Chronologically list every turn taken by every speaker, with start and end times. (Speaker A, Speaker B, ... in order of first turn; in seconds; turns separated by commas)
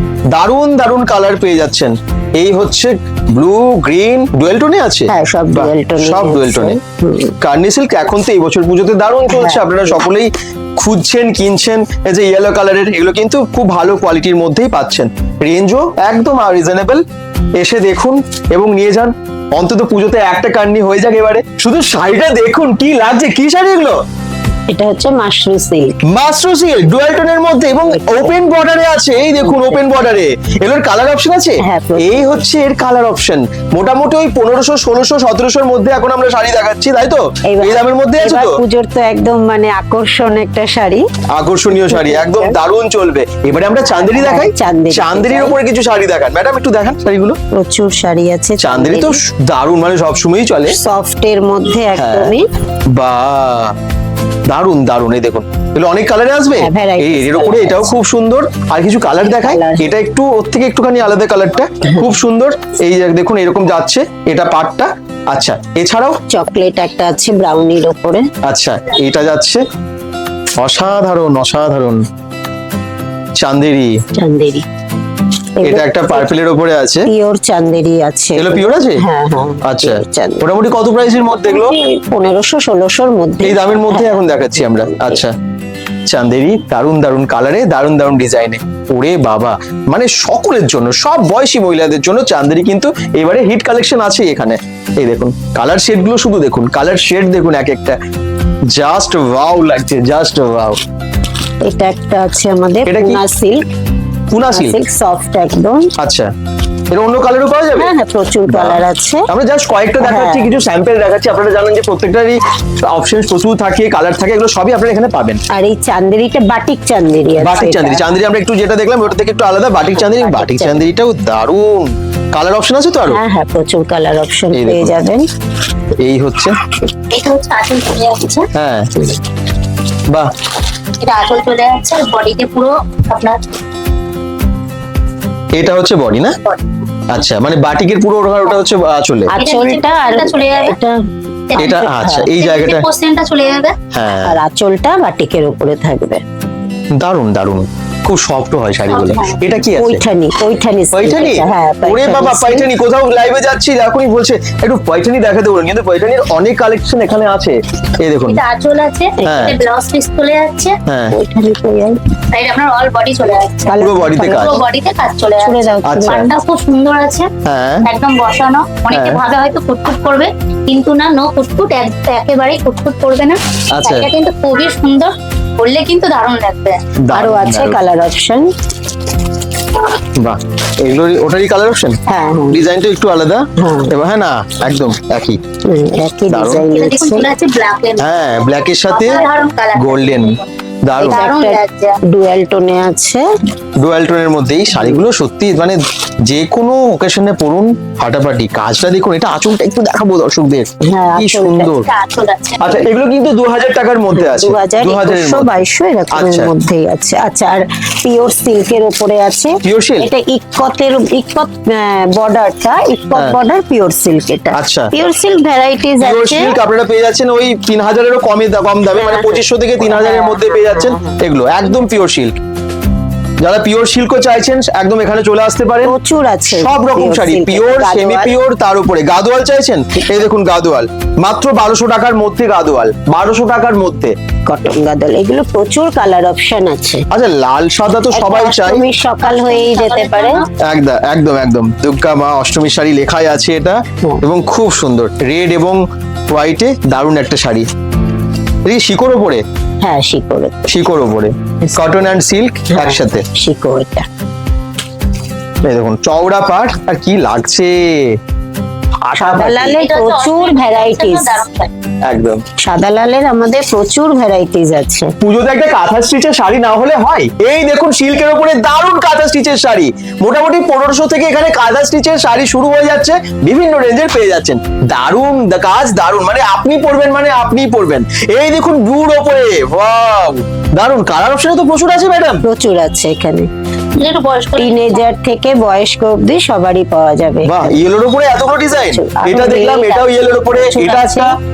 Speaker A: 0.3-6.8, Speaker B: 5.1-7.3, Speaker A: 7.4-17.0, Speaker B: 9.3-10.0, Speaker A: 17.6-24.0, Speaker B: 24.7-26.0, Speaker A: 26.1-38.6, Speaker B: 27.8-28.3, Speaker B: 29.4-29.8, Speaker B: 31.6-32.3, Speaker B: 37.5-41.1, Speaker A: 41.3-47.4, Speaker B: 41.8-42.6, Speaker B: 43.9-45.6, Speaker B: 47.5-49.2, Speaker A: 48.6-50.8, Speaker B: 50.8-52.4, Speaker A: 52.0-52.3, Speaker A: 52.9-53.7, Speaker A: 54.5-66.2, Speaker B: 56.6-57.9, Speaker B: 59.2-59.9, Speaker B: 61.8-62.1, Speaker B: 66.3-68.3, Speaker A: 68.4-69.6, Speaker A: 70.6-72.0, Speaker A: 73.4-74.0, Speaker B: 74.2-74.6, Speaker B: 75.6-76.3, Speaker A: 75.6-77.1, Speaker B: 77.1-80.5, Speaker A: 78.3-79.0, Speaker A: 79.6-81.7, Speaker B: 81.2-85.2, Speaker A: 83.4-85.3, Speaker A: 86.1-98.0, Speaker A: 98.7-100.8, Speaker B: 101.6-103.6, Speaker A: 102.8-103.2, Speaker A: 104.3-104.8, Speaker B: 104.5-105.9, Speaker A: 106.0-106.3, Speaker A: 106.9-107.9, Speaker B: 107.8-109.3, Speaker A: 108.5-115.4, Speaker B: 110.0-110.5, Speaker B: 115.5-118.1, Speaker A: 117.4-123.2, Speaker B: 119.9-120.8, Speaker B: 123.1-125.3, Speaker A: 124.5-125.0, Speaker A: 126.0-126.6, Speaker C: 127.1-128.5, Speaker A: 128.5-128.9, Speaker C: 131.0-133.4, Speaker A: 135.6-136.3, Speaker A: 137.1-139.3, Speaker B: 139.3-141.0, Speaker C: 139.3-140.7, Speaker B: 141.5-142.3, Speaker C: 141.5-141.8, Speaker A: 141.6-142.8, Speaker C: 142.3-143.7, Speaker A: 143.9-144.4, Speaker B: 144.2-146.2, Speaker A: 146.9-150.0, Speaker C: 148.9-149.4, Speaker B: 149.8-152.7, Speaker A: 150.9-158.4, Speaker C: 158.3-160.8, Speaker A: 159.2-159.6, Speaker A: 160.8-161.2, Speaker B: 161.1-162.0, Speaker C: 162.3-167.3, Speaker B: 163.7-164.6, Speaker A: 163.8-164.6, Speaker B: 165.4-166.3, Speaker A: 165.8-166.3, Speaker A: 167.4-167.9, Speaker C: 167.8-176.8, Speaker A: 168.9-169.2, Speaker A: 173.7-174.1, Speaker A: 177.0-177.8, Speaker B: 177.1-178.5, Speaker A: 180.2-182.0, Speaker B: 182.1-182.6, Speaker A: 182.5-185.4, Speaker B: 183.6-183.9, Speaker B: 185.7-187.3, Speaker A: 186.3-186.6, Speaker C: 186.7-188.2, Speaker A: 188.0-189.2, Speaker C: 188.9-190.4, Speaker A: 189.7-191.3, Speaker B: 191.0-193.3, Speaker C: 191.0-192.0, Speaker A: 193.8-201.8, Speaker B: 200.8-201.8, Speaker C: 201.8-202.8, Speaker A: 202.6-205.5, Speaker B: 204.1-216.6, Speaker A: 206.1-206.5, Speaker A: 209.6-210.1, Speaker A: 214.5-214.9, Speaker A: 216.0-222.3, Speaker B: 218.9-221.2, Speaker A: 223.4-225.9, Speaker B: 225.8-228.4, Speaker A: 226.5-234.1, Speaker B: 234.5-237.1, Speaker A: 237.1-238.8, Speaker B: 238.1-240.4, Speaker C: 239.2-240.5, Speaker A: 240.6-247.7, Speaker A: 248.7-249.4, Speaker B: 249.8-250.7, Speaker A: 250.7-253.2, Speaker B: 251.6-252.0, Speaker B: 252.7-254.1, Speaker A: 255.7-258.2, Speaker A: 259.1-259.8, Speaker B: 259.2-261.4, Speaker C: 259.8-261.7, Speaker A: 262.0-262.4, Speaker B: 262.6-265.1, Speaker A: 265.2-282.4, Speaker B: 282.4-283.5, Speaker C: 284.0-285.0, Speaker B: 284.6-287.8, Speaker A: 287.4-291.3, Speaker B: 288.7-291.3